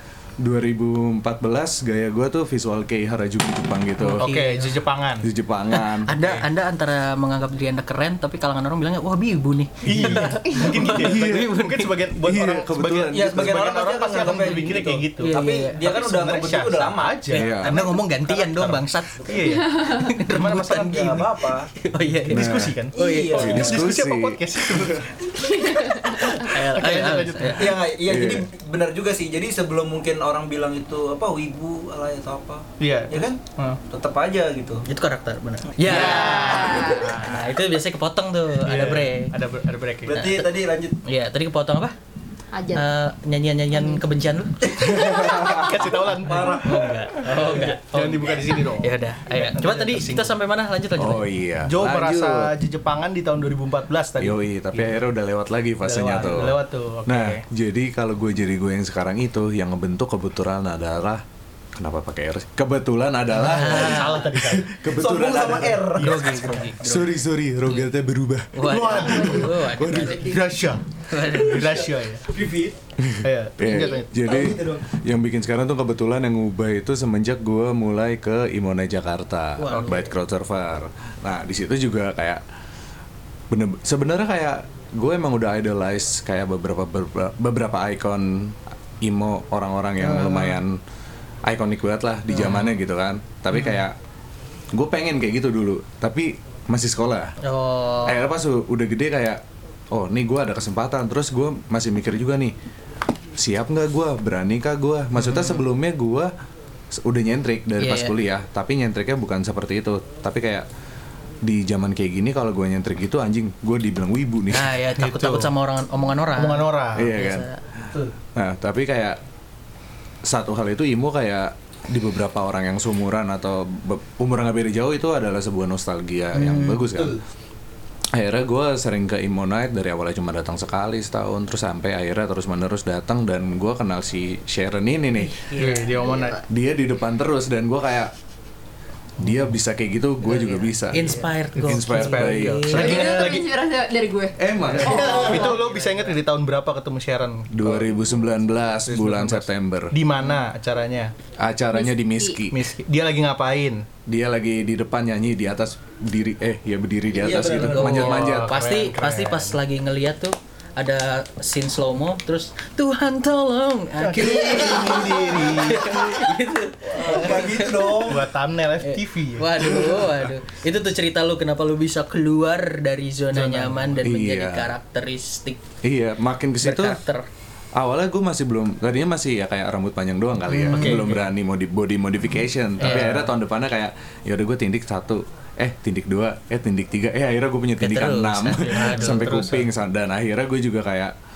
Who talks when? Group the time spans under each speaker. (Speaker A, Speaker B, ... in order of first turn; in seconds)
Speaker A: 0.4-4.2, 5.2-6.2, 10.9-11.5, 12.2-13.5, 17.3-17.7, 22.3-22.7, 23.3-25.1, 28.0-28.4, 44.9-45.7, 51.0-52.5, 54.2-61.2, 61.8-65.9, 66.8-70.3, 73.0-82.4, 83.5-90.8, 91.4-93.9, 94.7-97.3, 98.0-102.5, 103.4-106.3, 106.9-110.7, 111.4-114.7, 116.9-119.2, 120.2-127.2, 128.1-135.4, 136.5-138.1, 139.2-143.2, 144.4-145.4, 147.5-149.9, 151.4-152.6, 154.1-158.5, 174.0-174.7, 175.8-177.0, 177.8-191.1
Speaker B: 4.0-4.7, 5.7-11.9, 15.2-15.8, 17.3-23.8, 26.0-27.8, 34.9-39.3, 40.1-40.5, 41.0-41.9, 42.7-44.6, 46.5-51.3, 63.4-64.3, 66.0-67.9, 68.5-70.4, 71.1-71.8, 79.6-80.1, 90.0-90.6, 92.3-92.7, 97.4-98.2, 105.2-105.6, 107.8-108.1, 114.5-117.6, 126.3-126.9, 135.2-136.0, 140.2-143.3, 144.8-146.1, 157.6-168.2, 168.8-175.6, 176.6-177.2, 180.5-181.2, 182.8-183.3, 187.8-189.4
Speaker C: 4.2-5.3, 9.8-21.1, 22.3-27.8, 32.8-33.8, 35.8-37.4, 38.6-40.2, 45.4-46.7, 47.3-50.3, 51.6-55.0, 55.8-57.4, 63.3-64.8, 65.8-66.7, 68.6-72.3, 73.2-74.0, 115.0-115.5, 116.3-117.1, 135.5-136.4, 141.1-143.5, 144.7-148.0, 148.8-151.1, 152.5-153.9, 157.7-159.6, 164.0-166.0, 168.0-170.0, 173.3-174.0, 180.7-181.2, 182.8-183.2, 188.7-189.7
Speaker D: 13.1-17.9, 20.7-21.7, 22.9-23.8, 27.5-34.8, 40.0-41.0, 46.2-47.1, 64.9-66.3, 72.2-72.8, 74.2-74.8, 157.1-158.0, 164.2-165.9, 166.9-168.2
Speaker E: 19.7-20.1, 25.5-26.3, 35.9-37.2, 42.5-42.9, 43.7-44.0, 73.7-74.0, 136.0-136.4, 142.7-145.6, 151.7-152.4